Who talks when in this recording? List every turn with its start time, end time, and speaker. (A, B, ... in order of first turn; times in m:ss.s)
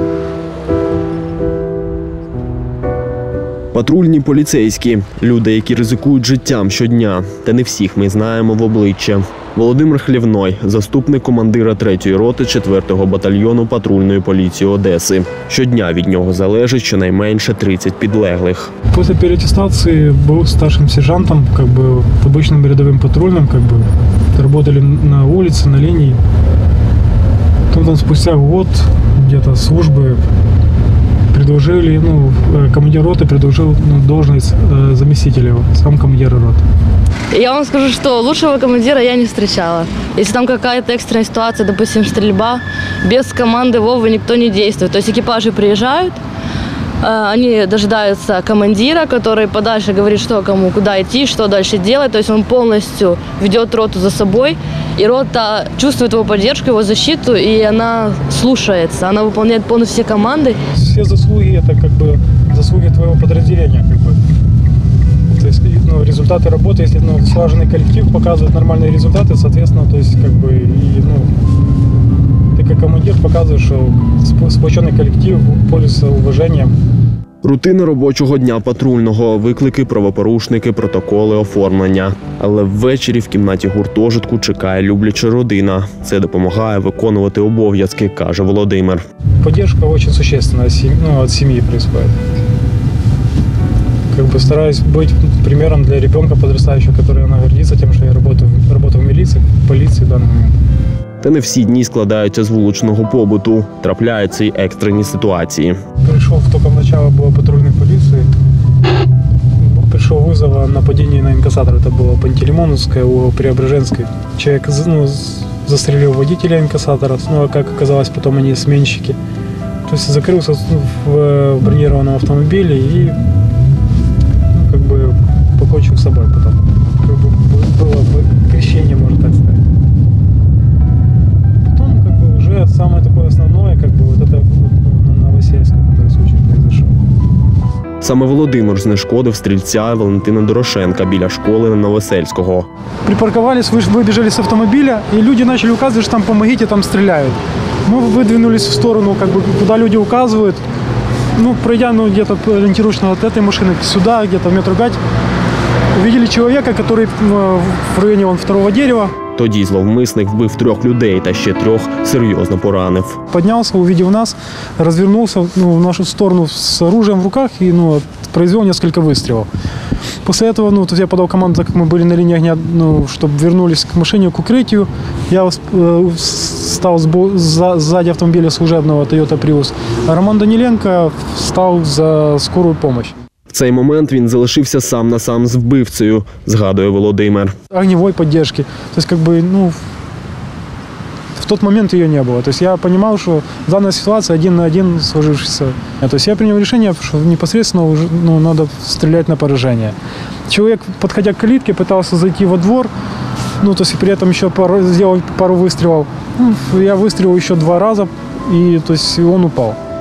0:03.7-0:18.7 A
0:18.9-0:26.2 B
0:27.7-0:30.2 B
0:31.3-0:36.6 B
0:37.3-0:46.2 C
0:47.0-1:00.6 C
1:00.6-1:04.2 B
1:05.3-1:11.3 B
1:12.5-1:16.8 B
1:17.4-1:29.0 A
1:29.4-1:32.2 B
1:34.1-1:40.6 B
1:41.2-1:45.8 A
1:46.0-1:48.3 B
1:49.6-1:59.2 B
1:59.8-2:03.2 B
2:04.5-2:09.6 B
2:11.7-2:17.1 B
2:18.0-2:22.7 A
2:23.0-2:30.6 B
2:31.4-2:35.0 B
2:35.9-2:39.2 B
2:39.4-2:43.2 A
2:43.3-2:49.5 B
2:50.2-3:03.2 B
3:03.5-3:07.5 A
3:07.7-3:09.8 B
3:11.4-3:20.0 B
3:20.5-3:22.9 B
3:23.6-3:29.8 B